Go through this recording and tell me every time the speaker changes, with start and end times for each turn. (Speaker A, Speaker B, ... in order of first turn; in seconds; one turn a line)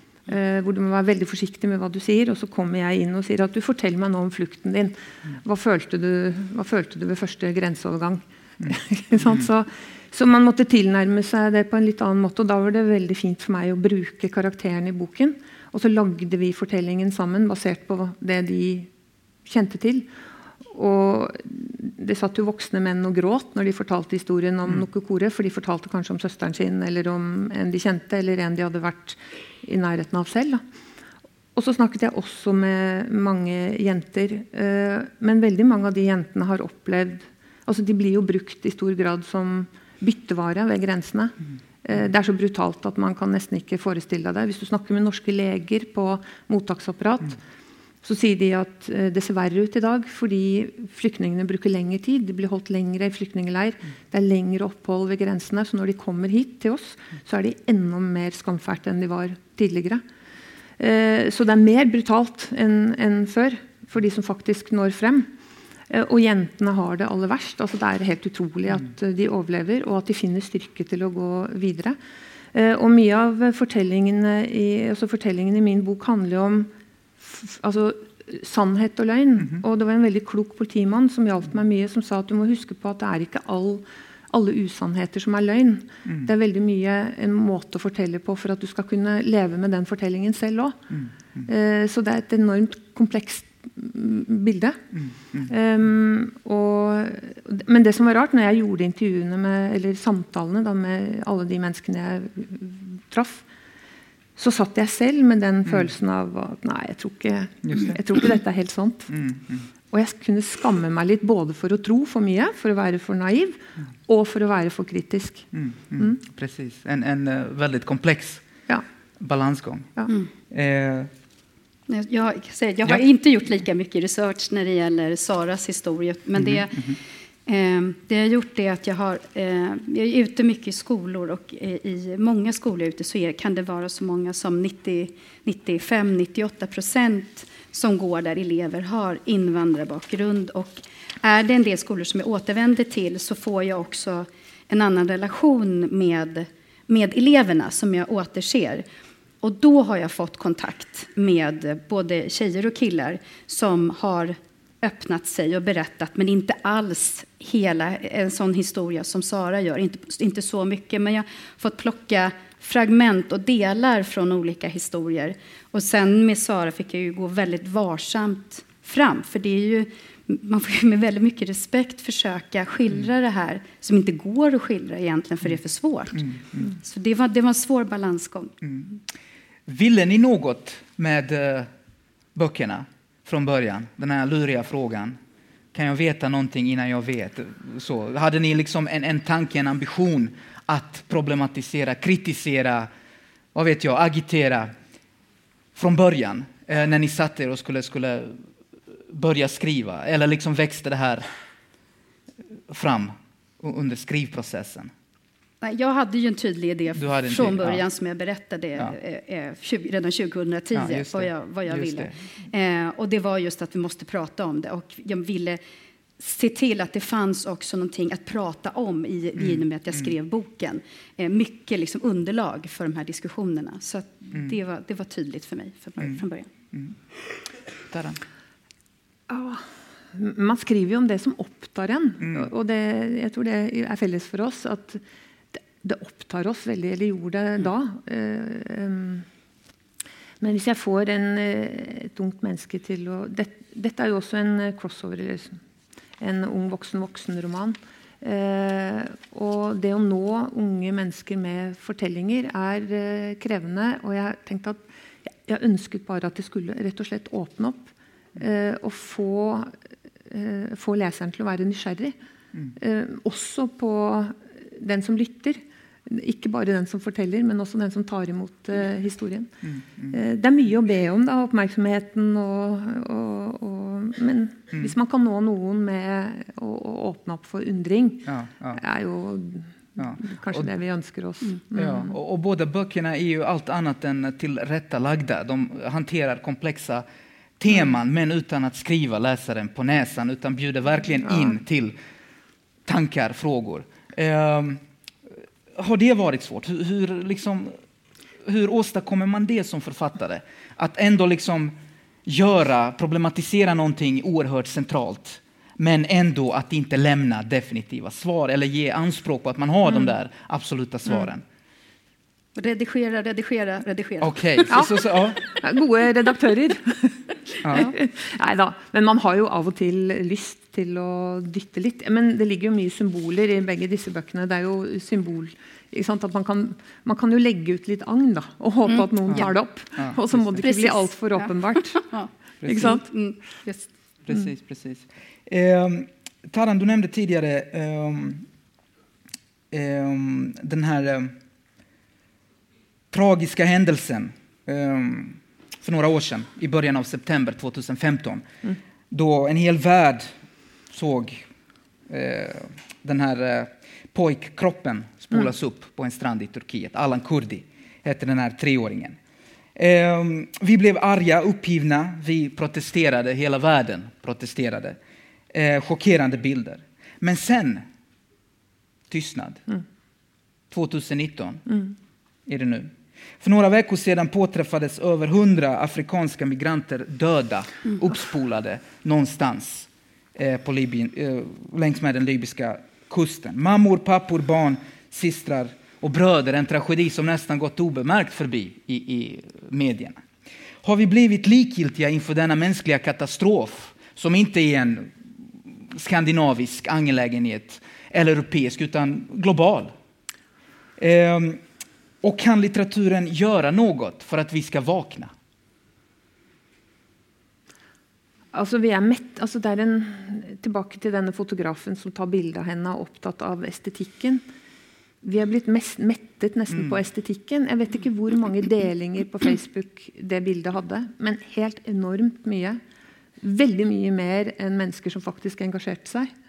Speaker A: 0.3-18.9
Speaker A: 19.4-20.1
Speaker A: 20.7-30.6
Speaker A: 31.5-47.4
Speaker A: 48.0-60.0
Speaker A: 60.8-65.3
Speaker A: 65.9-72.0
Speaker A: 72.5-90.9
Speaker A: 91.4-94.8
Speaker B: 95.0-95.4
Speaker A: 95.4-103.5
Speaker A: 104.4-109.1
Speaker B: 107.6-108.0
Speaker B: 109.1-109.7
Speaker A: 109.9-116.2
Speaker B: 115.5-118.4
Speaker B: 119.2-120.0
Speaker B: 120.5-121.1
Speaker C: 121.9-148.8
Speaker B: 126.4-127.0
Speaker C: 149.4-178.5
Speaker B: 176.1-176.7
Speaker B: 178.6-179.0
Speaker B: 179.7-181.7
Speaker B: 182.3-185.2
Speaker B: 185.7-192.9
Speaker B: 193.5-194.7
Speaker B: 195.7-198.4
Speaker B: 199.1-201.3
Speaker B: 202.7-204.9
Speaker C: 205.6-215.6
Speaker B: 206.9-207.8
Speaker B: 210.7-212.1
Speaker C: 216.2-226.5
Speaker B: 219.4-220.1
Speaker B: 227.9-228.2
Speaker A: 229.3-235.0
Speaker A: 235.5-239.3
Speaker A: 240.4-245.6
Speaker A: 246.2-259.7
Speaker A: 260.3-262.1
Speaker A: 262.7-269.5
Speaker B: 269.7-270.1
Speaker A: 270.1-282.1
Speaker B: 278.2-278.8
Speaker B: 280.0-280.7
Speaker B: 281.7-287.0
Speaker B: 287.6-291.9
Speaker B: 292.9-294.8
Speaker B: 295.7-297.7
Speaker B: 298.4-301.7
Speaker B: 302.2-311.4
Speaker C: 312.6-315.3
Speaker B: 314.2-315.4
Speaker A: 314.7-332.0
Speaker B: 317.6-317.9
Speaker C: 328.9-329.4
Speaker B: 329.3-330.6
Speaker C: 330.6-333.9
Speaker B: 332.6-333.0
Speaker A: 332.6-333.0
Speaker B: 334.2-338.4
Speaker B: 339.7-341.3
Speaker B: 343.1-348.4
Speaker B: 349.1-350.3
Speaker B: 350.9-351.4
Speaker B: 352.1-359.2
Speaker B: 359.7-365.0
Speaker B: 365.5-367.8
Speaker B: 369.1-369.6
Speaker B: 370.7-371.7
Speaker B: 372.4-390.2
Speaker B: 390.8-395.1
Speaker B: 395.9-399.9
Speaker B: 401.0-401.6
Speaker B: 402.2-405.3
Speaker A: 408.5-414.4
Speaker A: 415.2-422.8
Speaker B: 416.7-417.0
Speaker A: 423.4-426.3